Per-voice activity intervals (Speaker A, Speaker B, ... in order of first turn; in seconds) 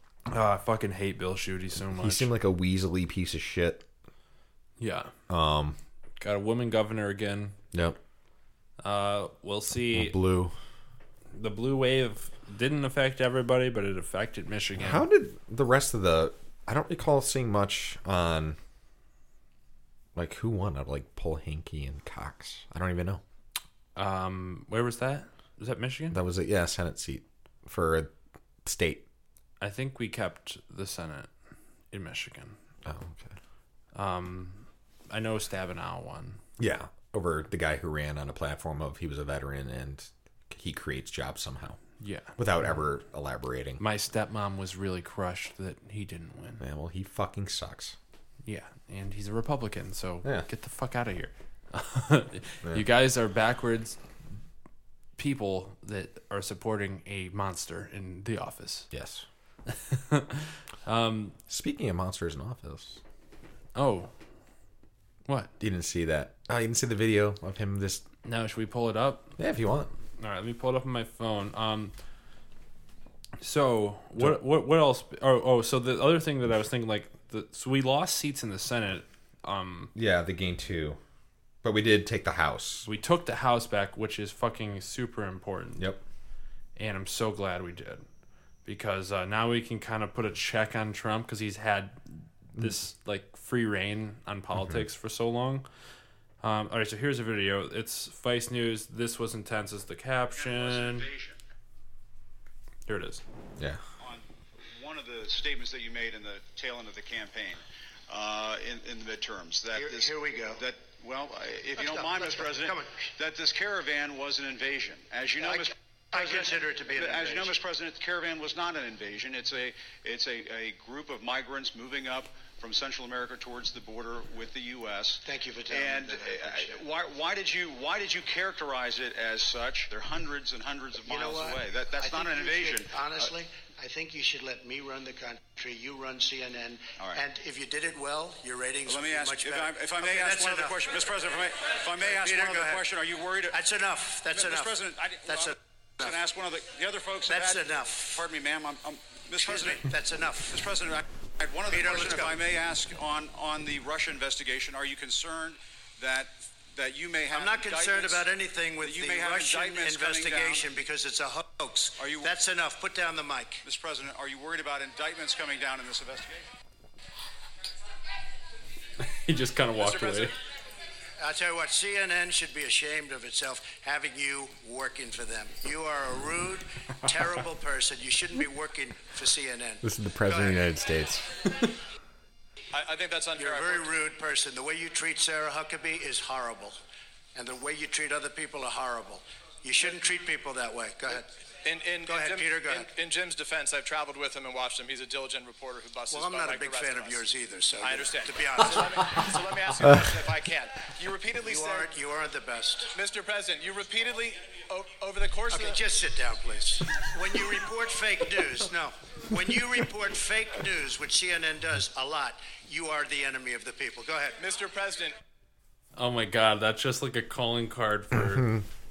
Speaker A: 0.3-2.3, 4.8-5.1, 6.2-7.6, 8.8-10.2, 11.3-15.1, 24.0-26.2, 29.6-31.3, 31.9-32.6, 33.9-36.4, 42.0-42.4, 43.8-46.6, 48.5-54.0, 55.2-58.9, 59.7-61.4, 63.8-64.1, 68.2-69.4, 70.2-71.9, 73.4-79.9, 82.8-85.9, 86.8-88.0, 88.7-95.7, 96.4-101.1, 102.9-103.2, 169.0-170.3, 216.0-218.6
Speaker B: 1.9-3.9, 5.3-5.8, 7.7-8.0, 9.9-10.5, 14.8-18.6, 20.1-23.2, 26.1-28.1, 28.6-29.1, 32.9-33.3, 36.6-41.8, 42.4-43.8, 46.6-48.0, 58.9-59.3, 61.5-63.0, 65.6-68.0, 69.4-69.9, 80.0-81.0, 81.6-82.9, 179.8-181.5, 199.8-200.1, 218.1-218.6
Speaker C: 100.4-101.4, 104.0-133.3, 138.8-143.6, 144.3-149.9, 150.5-158.3, 158.8-160.7, 162.0-162.3, 163.6-166.4
Speaker D: 109.8-110.6, 111.8-112.9, 115.4-117.6, 125.2-126.8, 131.1-140.8, 142.0-142.9, 143.5-146.2, 147.3-148.3, 149.4-150.7, 151.7-152.4, 157.3-163.6, 171.2-180.6, 183.4-186.8, 187.3-191.3, 192.1-192.9, 196.1-199.3, 201.4-202.9, 205.5-214.4
Speaker E: 182.7-183.9, 191.6-197.2, 197.8-201.9, 202.9-205.8, 214.4-215.2